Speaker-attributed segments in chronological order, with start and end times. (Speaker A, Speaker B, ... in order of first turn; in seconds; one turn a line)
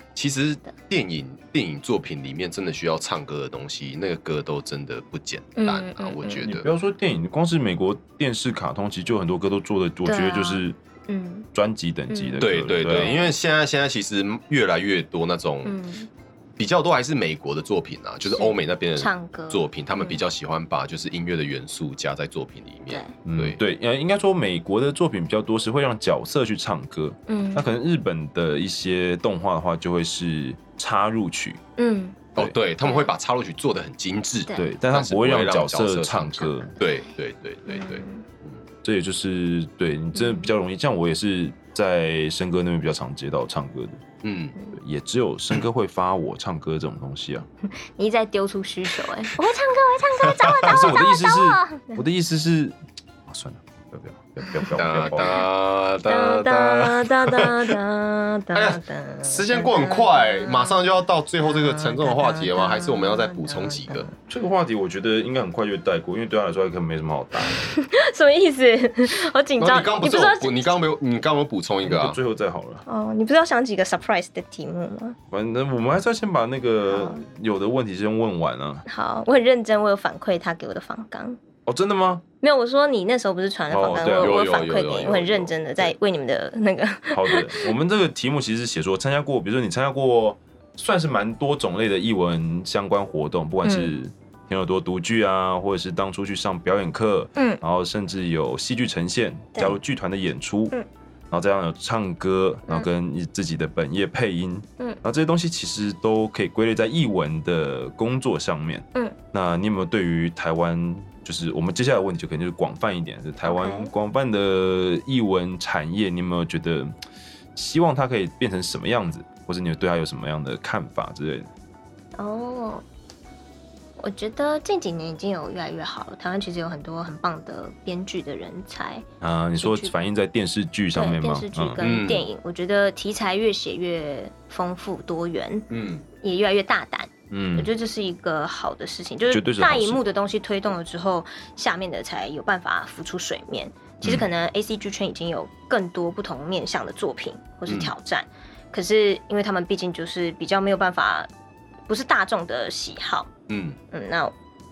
Speaker A: 0.2-6.7
Speaker B: 5.6-6.5
Speaker C: 6.4-10.8
Speaker B: 10.1-11.5
Speaker C: 11.5-13.1
Speaker B: 12.1-13.3
Speaker A: 12.4-15.8
Speaker B: 15.7-16.1
Speaker A: 16.6-23.6
Speaker B: 18.3-20.2
Speaker C: 23.3-31.6
Speaker B: 27.3-27.7
Speaker B: 31.8-32.2
Speaker A: 32.4-38.6
Speaker B: 32.8-33.1
Speaker C: 34.6-36.7
Speaker B: 36.6-37.1
Speaker B: 37.7-38.2
Speaker C: 38.8-44.0
Speaker B: 40.1-40.5
Speaker A: 44.2-44.6
Speaker C: 44.8-47.5
Speaker B: 47.7-52.0
Speaker A: 50.3-50.9
Speaker C: 50.6-55.5
Speaker A: 54.8-57.8
Speaker B: 56.1-60.8
Speaker A: 58.5-64.1
Speaker B: 61.4-64.2
Speaker C: 64.3-67.8
Speaker B: 67.7-70.8
Speaker A: 69.6-72.2
Speaker C: 71.8-72.8
Speaker B: 72.9-75.2
Speaker C: 75.3-78.8
Speaker B: 76.9-77.2
Speaker B: 78.9-81.4
Speaker C: 81.7-82.2
Speaker B: 82.4-87.7
Speaker C: 83.7-84.4
Speaker A: 83.8-85.9
Speaker C: 87.1-100.7
Speaker B: 93.6-93.9
Speaker B: 97.4-97.6
Speaker C: 101.3-116.9
Speaker B: 113.4-113.9
Speaker C: 117.5-121.5
Speaker B: 122.2-122.8
Speaker B: 124.0-129.1
Speaker C: 129.2-131.8
Speaker B: 129.6-129.9
Speaker B: 130.9-135.7
Speaker A: 131.8-132.3
Speaker A: 135.7-136.1
Speaker B: 136.2-151.3
Speaker C: 137.3-137.7
Speaker C: 139.3-140.0
Speaker A: 147.7-147.9
Speaker B: 151.9-153.3
Speaker A: 153.5-153.8
Speaker B: 153.9-154.3